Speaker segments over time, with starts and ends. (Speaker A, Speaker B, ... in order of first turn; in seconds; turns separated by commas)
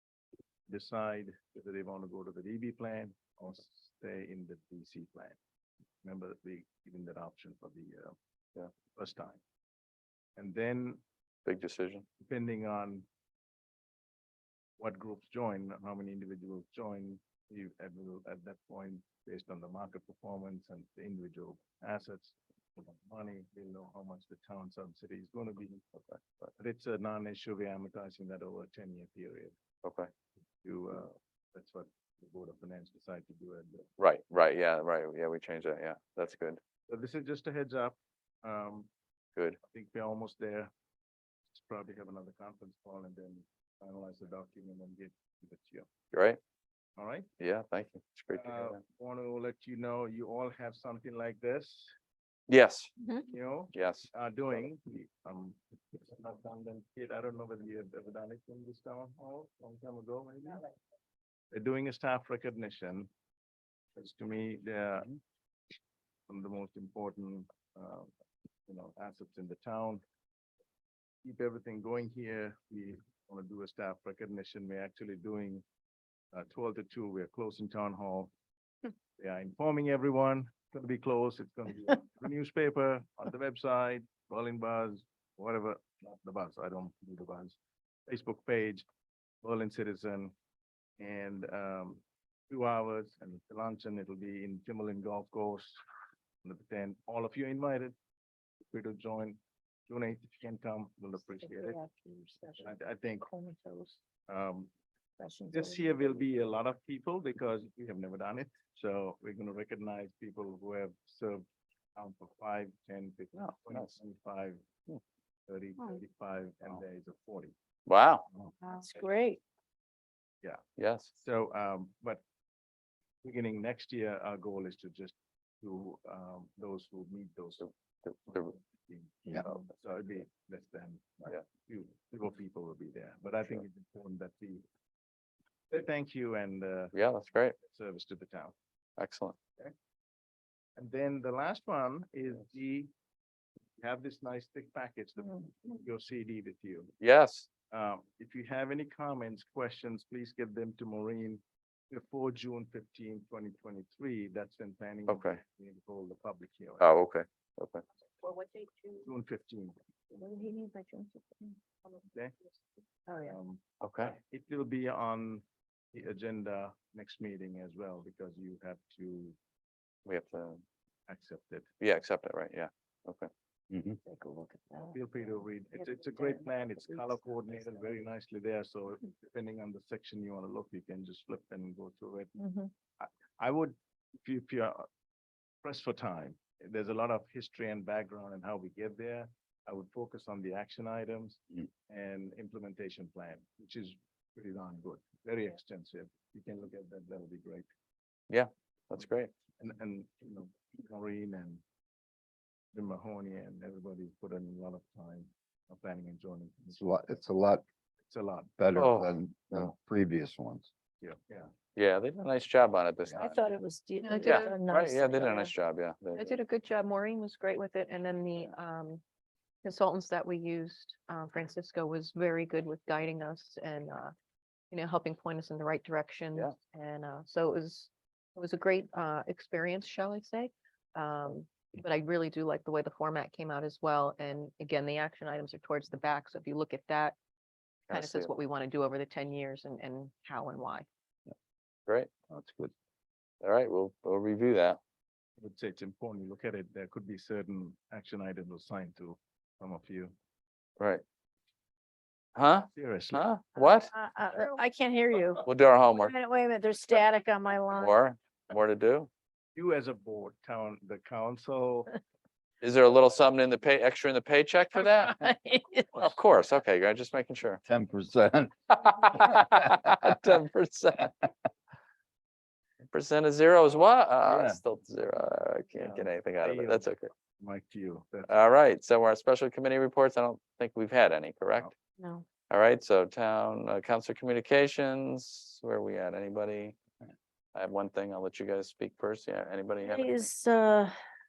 Speaker A: 0.7-5.4, Speaker A: 6.0-8.2, Speaker A: 8.9-9.4, Speaker A: 10.4-11.0, Speaker B: 11.4-12.1, Speaker A: 12.2-13.1, Speaker A: 14.8-26.0, Speaker A: 26.5-29.5, Speaker B: 29.8-30.1, Speaker A: 30.6-33.9, Speaker B: 34.0-36.6, Speaker A: 36.9-38.9, Speaker A: 39.6-40.7, Speaker A: 41.5-45.9, Speaker B: 46.1-46.4, Speaker A: 47.0-47.3, Speaker B: 47.4-48.8, Speaker A: 48.3-51.9, Speaker B: 52.5-52.9, Speaker A: 53.2-60.6, Speaker B: 53.7-54.1, Speaker A: 61.5-63.1, Speaker A: 64.0-65.1, Speaker A: 66.3-68.1, Speaker A: 68.7-70.0, Speaker A: 71.2-75.6, Speaker A: 76.3-78.3, Speaker A: 79.2-88.8, Speaker A: 89.4-90.3, Speaker A: 91.0-95.8, Speaker A: 96.4-97.9, Speaker A: 98.7-101.8, Speaker C: 101.4-102.7, Speaker A: 102.6-103.3, Speaker C: 103.2-104.0, Speaker A: 104.3-104.7, Speaker C: 105.2-106.2, Speaker A: 105.5-114.6, Speaker B: 113.3-114.0, Speaker A: 115.5-117.5, Speaker B: 117.9-118.3, Speaker C: 118.6-119.4, Speaker A: 120.4-122.2, Speaker B: 120.8-121.1, Speaker A: 123.2-127.7, Speaker B: 128.0-128.5, Speaker A: 128.2-134.6, Speaker A: 135.7-136.9, Speaker B: 136.9-137.6, Speaker A: 137.6-138.5, Speaker B: 139.0-139.4, Speaker A: 140.8-142.9, Speaker A: 143.8-146.9, Speaker B: 147.0-147.5, Speaker A: 147.7-156.8, Speaker B: 155.1-155.4, Speaker B: 156.8-157.8, Speaker C: 158.2-159.0, Speaker A: 159.0-159.8, Speaker C: 160.1-161.6, Speaker C: 163.1-163.3, Speaker A: 163.2-169.4, Speaker B: 163.8-164.1, Speaker B: 170.1-170.6, Speaker A: 171.1-171.7, Speaker B: 171.8-173.3, Speaker C: 174.1-177.2, Speaker A: 174.9-182.3, Speaker C: 182.4-182.7, Speaker A: 183.0-184.9, Speaker A: 185.6-197.7, Speaker B: 198.3-199.3, Speaker A: 199.6-201.6, Speaker A: 202.7-207.2, Speaker D: 206.7-207.6, Speaker A: 208.0-208.5, Speaker D: 208.6-210.7, Speaker B: 208.7-209.1, Speaker A: 211.0-211.5, Speaker B: 211.8-213.3, Speaker C: 213.2-215.5, Speaker E: 214.0-214.6, Speaker B: 214.2-216.4, Speaker E: 216.2-219.0, Speaker E: 219.6-224.1, Speaker E: 224.7-237.2, Speaker B: 237.9-238.3, Speaker E: 237.9-240.9, Speaker D: 242.3-242.7, Speaker B: 243.4-244.8, Speaker A: 245.4-250.1, Speaker B: 252.3-253.9, Speaker A: 252.7-253.3, Speaker C: 253.6-258.0, Speaker B: 255.4-256.1, Speaker B: 257.8-259.1, Speaker A: 259.5-261.9, Speaker B: 262.6-265.2, Speaker C: 264.9-266.1, Speaker B: 265.9-267.6, Speaker D: 267.6-268.5, Speaker B: 268.7-271.3, Speaker D: 269.2-270.1, Speaker B: 272.9-277.1, Speaker A: 274.2-274.6, Speaker A: 275.8-278.5, Speaker B: 278.3-281.7, Speaker C: 282.0-282.3, Speaker B: 282.5-286.8, Speaker B: 287.5-290.3, Speaker C: 289.8-290.9